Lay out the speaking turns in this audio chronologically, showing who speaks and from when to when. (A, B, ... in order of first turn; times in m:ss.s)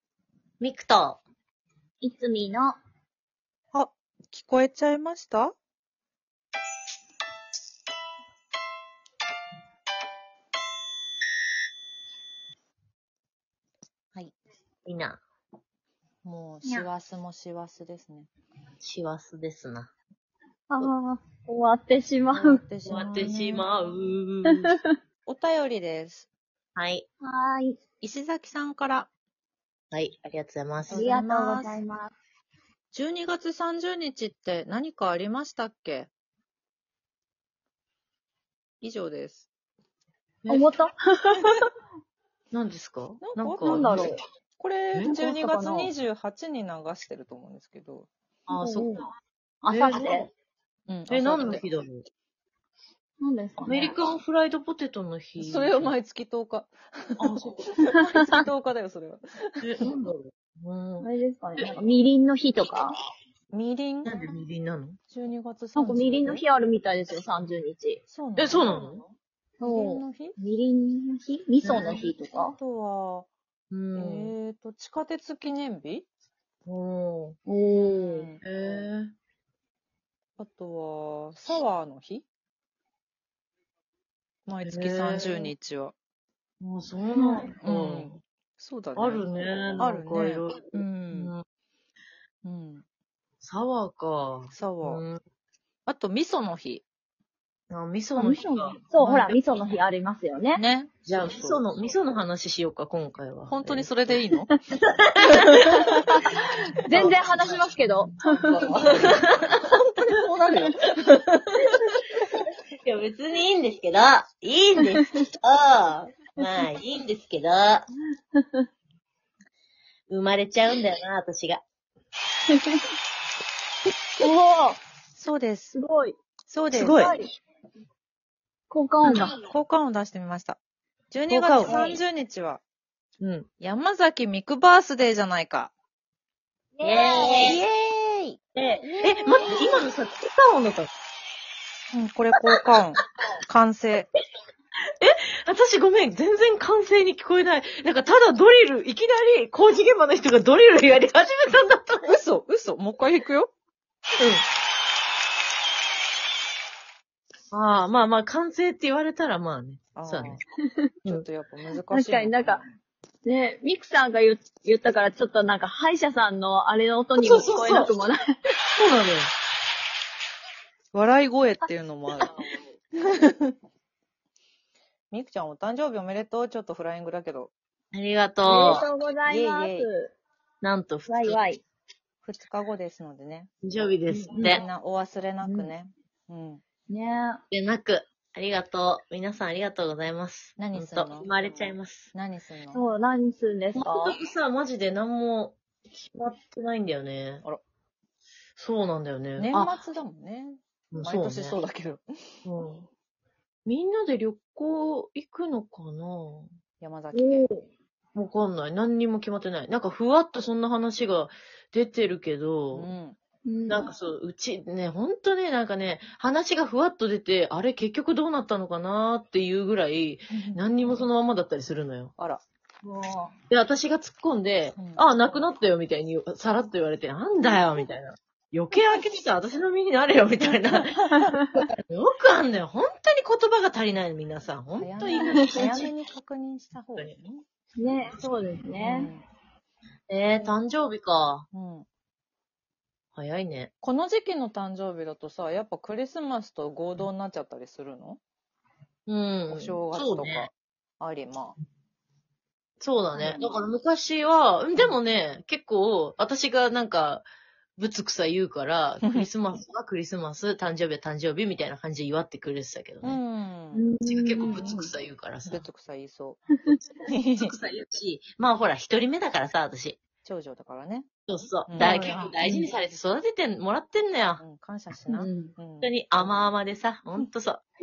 0:00.6-0:01.2 A
0:02.0-0:02.8 B
0:03.7-0:05.5 C
0:14.8-0:15.2 A
0:16.2-0:18.3 C
0:18.8-0:19.9 A
0:20.7-0:22.6 B
0:22.3-0:23.7 C
0:22.8-0:24.8 A
0:24.6-0:24.9 B
0:25.3-0:26.3 C
0:26.7-0:27.0 A
0:27.2-0:27.8 B
0:28.0-0:29.1 C
0:29.9-0:31.1 A
0:30.9-0:31.8 C
0:30.9-0:32.1 B
0:32.9-0:36.1 C
0:38.8-0:39.5 C
0:40.4-0:40.7 A
0:40.5-0:41.6 B
0:42.5-0:44.1 A
0:43.2-0:48.1 C
0:43.6-0:44.2 B
0:45.0-0:45.9 B
0:48.5-0:49.0 A
0:48.5-0:49.1 B
0:49.6-0:50.3 B
0:49.7-0:50.3 A
0:50.9-0:51.6 C
0:51.1-0:52.0 A
0:53.2-0:53.9 B
0:53.6-0:55.9 A
0:55.4-0:59.6 C
0:57.2-0:57.7 A
0:59.6-1:01.1 A
1:01.0-1:03.0 B
1:03.5-1:04.1 C
1:04.0-1:05.0 A
1:05.1-1:06.4 C
1:05.8-1:08.0 B
1:08.1-1:10.4 C
1:08.4-1:09.0 A
1:09.6-1:12.5 B
1:11.6-1:12.0 A
1:12.3-1:13.3 C
1:13.7-1:14.3 A
1:13.9-1:16.0 C
1:16.6-1:17.4 A
1:17.4-1:18.3 B
1:17.7-1:18.8 C
1:18.4-1:19.1 A
1:20.4-1:22.2 C
1:24.5-1:25.9 C
1:24.6-1:25.5 A
1:26.6-1:28.2 A
1:27.1-1:27.5 B
1:27.6-1:29.2 C
1:29.0-1:31.4 A
1:29.8-1:31.3 C
1:32.4-1:32.8 C
1:33.4-1:35.2 A
1:34.5-1:35.0 C
1:35.8-1:36.8 C
1:37.7-1:39.2 A
1:38.2-1:40.6 B
1:39.0-1:39.3 C
1:40.6-1:41.6 C
1:41.0-1:44.2 A
1:43.5-1:44.5 C
1:44.8-1:45.8 A
1:45.4-1:46.3 B
1:46.9-1:48.9 B
1:46.9-1:49.6 A
1:48.3-1:51.5 C
1:52.8-1:57.9 A
1:58.3-1:58.6 B
2:00.1-2:01.6 A
2:02.5-2:02.8 B
2:04.2-2:04.8 B
2:05.1-2:05.8 C
2:05.7-2:06.2 B
2:06.5-2:07.0 C
2:06.7-2:07.2 A
2:06.8-2:07.3 B
2:08.7-2:09.4 B
2:09.0-2:09.3 A
2:09.1-2:10.6 C
2:11.1-2:12.6 C
2:11.3-2:12.0 A
2:11.6-2:11.9 B
2:13.2-2:13.5 A
2:13.6-2:15.7 C
2:16.8-2:17.6 B
2:16.8-2:17.6 A
2:17.4-2:19.8 C
2:18.5-2:20.9 A
2:21.9-2:24.1 C
2:25.0-2:32.1 A
2:32.0-2:33.5 C
2:34.2-2:34.4 A
2:37.5-2:40.4 A
2:39.9-2:40.4 C
2:41.0-2:42.6 C
2:41.9-2:42.6 B
2:43.2-2:48.2 B
2:47.2-2:47.9 A
2:48.8-2:49.3 A
2:50.9-2:52.4 C
2:53.0-2:53.5 C
2:55.1-2:57.5 C
2:57.9-2:58.8 A
2:58.4-3:00.1 B
2:59.2-2:59.9 C
3:00.6-3:01.4 A
3:01.1-3:01.6 B
3:02.2-3:03.5 C
3:03.6-3:04.6 A
3:04.1-3:04.6 B
3:04.4-3:06.6 C
3:05.4-3:05.7 B
3:06.9-3:07.4 B
3:07.5-3:12.1 A
3:10.6-3:11.3 C
3:12.1-3:12.8 C
3:12.7-3:14.2 B
3:13.7-3:17.4 A
3:18.6-3:19.8 A
3:19.4-3:22.1 C
3:20.9-3:21.6 A
3:22.4-3:22.9 A
3:23.6-3:26.5 A
3:26.8-3:27.4 C
3:27.1-3:27.6 B
3:28.1-3:32.9 A
3:32.7-3:33.2 C
3:33.4-3:33.9 B
3:33.7-3:42.1 A
3:40.3-3:40.7 C
3:42.2-3:42.4 C
3:42.8-3:43.3 B
3:43.5-3:55.8 A
3:44.8-3:45.1 C
3:54.8-3:57.4 C
3:55.1-3:55.7 B
3:57.8-3:59.1 B
3:58.7-3:59.2 C
4:00.1-4:01.4 A
4:01.5-4:01.8 C
4:03.1-4:03.7 A
4:03.8-4:08.2 C
4:09.1-4:10.5 A
4:09.5-4:11.6 C
4:12.8-4:23.2 A
4:13.1-4:13.5 C
4:19.0-4:19.3 C
4:23.0-4:23.9 C
4:23.7-4:24.9 B
4:24.0-4:25.6 A
4:25.4-4:26.4 C
4:27.0-4:27.5 C
4:27.4-4:30.0 A
4:30.2-4:31.1 C
4:31.3-4:34.4 A
4:31.7-4:32.4 C
4:31.8-4:32.7 B
4:34.4-4:36.5 C
4:35.1-4:35.5 B
4:35.8-4:37.6 A